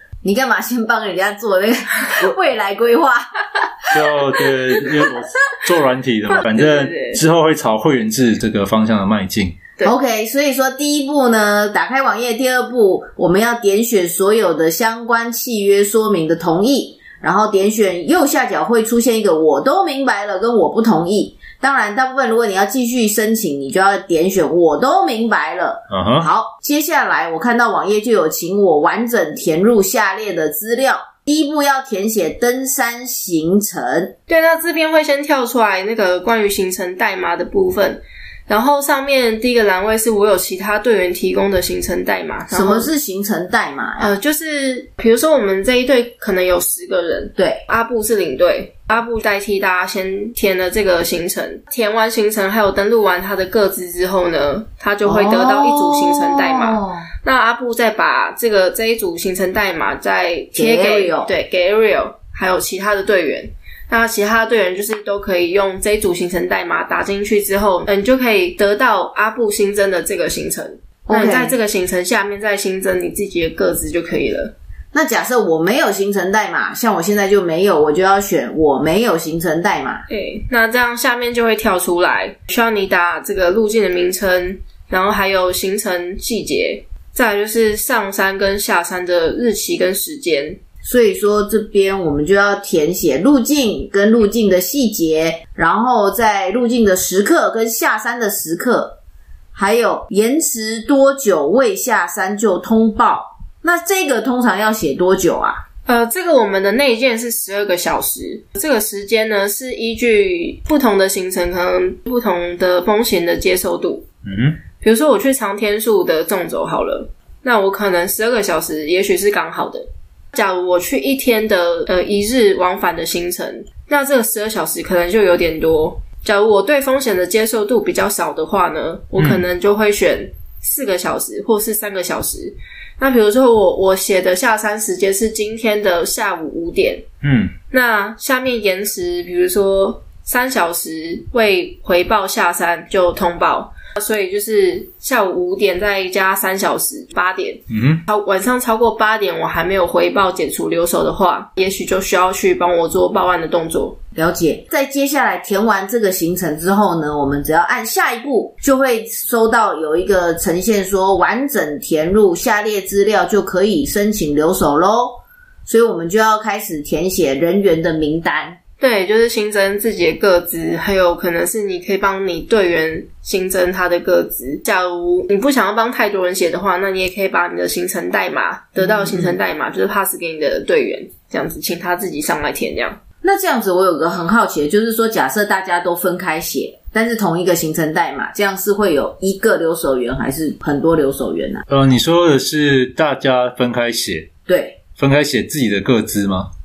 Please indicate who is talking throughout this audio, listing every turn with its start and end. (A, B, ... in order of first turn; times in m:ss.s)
0:00.2-0:05.1 A
0:03.9-0:09.6 B
0:06.3-0:07.2 C
0:09.8-0:34.2 A
0:25.9-0:26.3 B
0:34.3-0:42.9 C
0:42.5-0:44.1 A
0:44.0-1:14.5 C
0:47.4-0:47.6 A
0:55.0-0:57.1 A
1:00.5-1:01.3 A
1:11.1-1:11.6 A
1:14.9-1:20.1 A
1:20.1-1:30.6 C
1:30.8-1:39.0 A
1:39.5-1:45.6 A
1:45.9-1:54.1 C
1:54.2-1:54.6 B
1:54.8-2:17.0 C
2:09.2-2:09.4 B
2:17.2-2:17.5 B
2:17.7-2:34.0 C
2:27.7-2:28.0 B
2:34.1-2:48.6 A
2:48.8-3:03.0 C
2:58.8-2:59.4 A
3:03.2-3:11.6 A
3:11.7-3:14.3 B
3:14.5-3:14.8 A
3:15.0-3:16.5 B